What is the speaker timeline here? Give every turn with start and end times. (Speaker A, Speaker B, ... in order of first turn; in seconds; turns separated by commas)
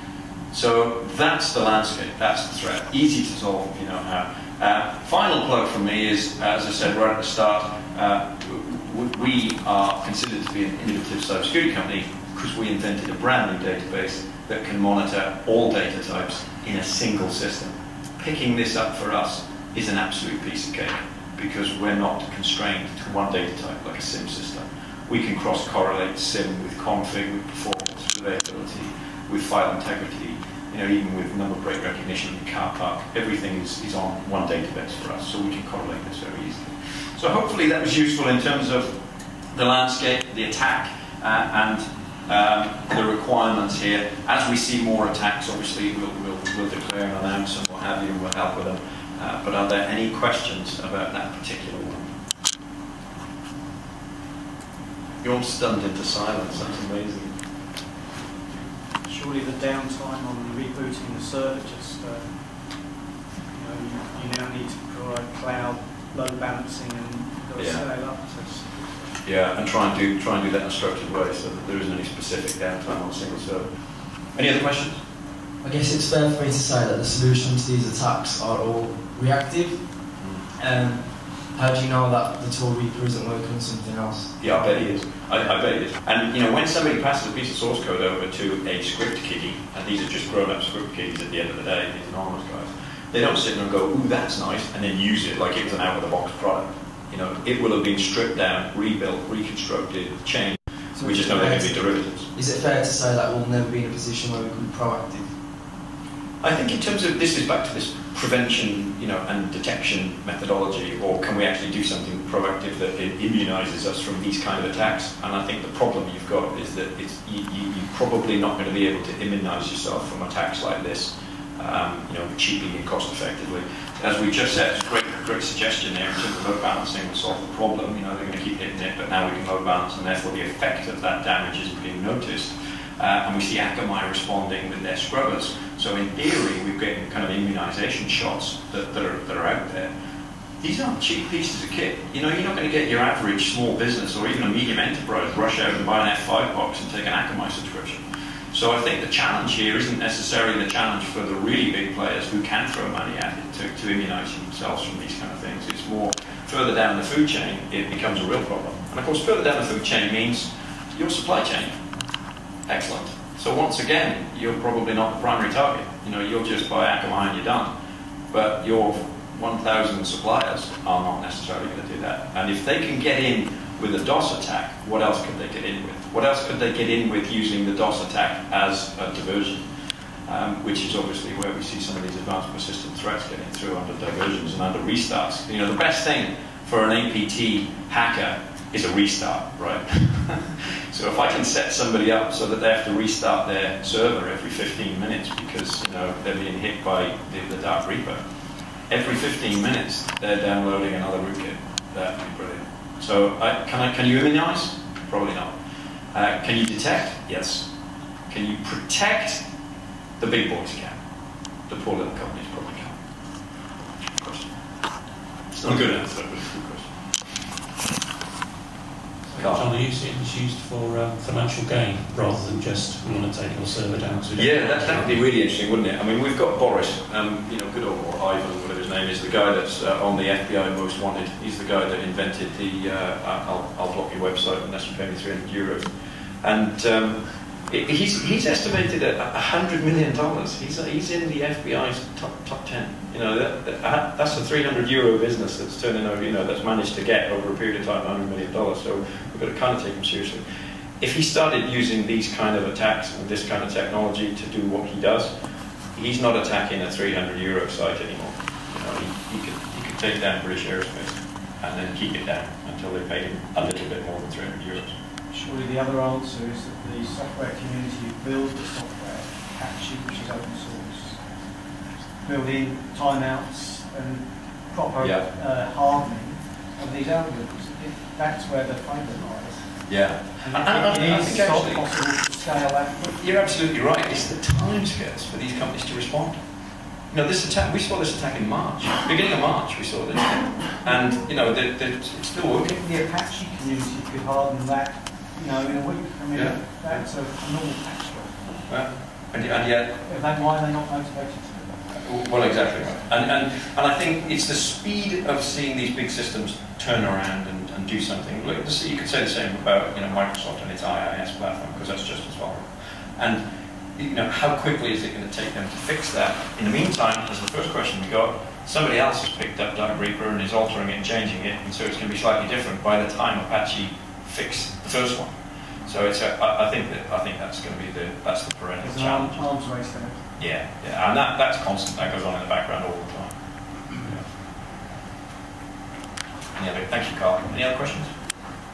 Speaker A: 0.5-39.0, Speaker A: 39.5-52.1, Speaker A: 55.2-57.3, Speaker B: 59.0-62.4, Speaker B: 63.5-69.1, Speaker A: 67.6-67.8, Speaker A: 69.2-73.7, Speaker A: 74.3-75.0, Speaker C: 75.6-79.8, Speaker C: 80.6-84.5, Speaker A: 84.4-102.3, Speaker C: 101.0-105.3, Speaker A: 106.4-139.9, Speaker A: 140.6-161.8, Speaker A: 162.7-167.7, Speaker A: 168.3-179.7, Speaker A: 180.2-198.2, Speaker A: 198.9-205.5, Speaker A: 206.1-207.7, Speaker A: 208.3-209.4, Speaker A: 210.2-211.0, Speaker A: 211.7-213.0, Speaker A: 214.1-214.5, Speaker A: 215.5-216.9, Speaker D: 219.3-225.1, Speaker A: 219.3-219.7, Speaker A: 224.3-235.9, Speaker A: 236.4-250.4, Speaker A: 251.0-255.3, Speaker A: 255.9-264.9, Speaker B: 265.3-271.2, Speaker B: 272.2-279.8, Speaker A: 275.0-275.2, Speaker A: 279.9-281.9, Speaker B: 280.4-283.2, Speaker A: 283.2-286.4, Speaker A: 287.1-292.8, Speaker B: 292.7-298.6, Speaker A: 298.7-300.0, Speaker B: 300.0-301.8, Speaker A: 301.9-312.7, Speaker A: 313.2-313.4, Speaker A: 314.0-325.3, Speaker A: 325.9-329.4, Speaker B: 328.8-330.2, Speaker A: 330.4-333.3, Speaker A: 333.9-334.2, Speaker A: 336.6-338.1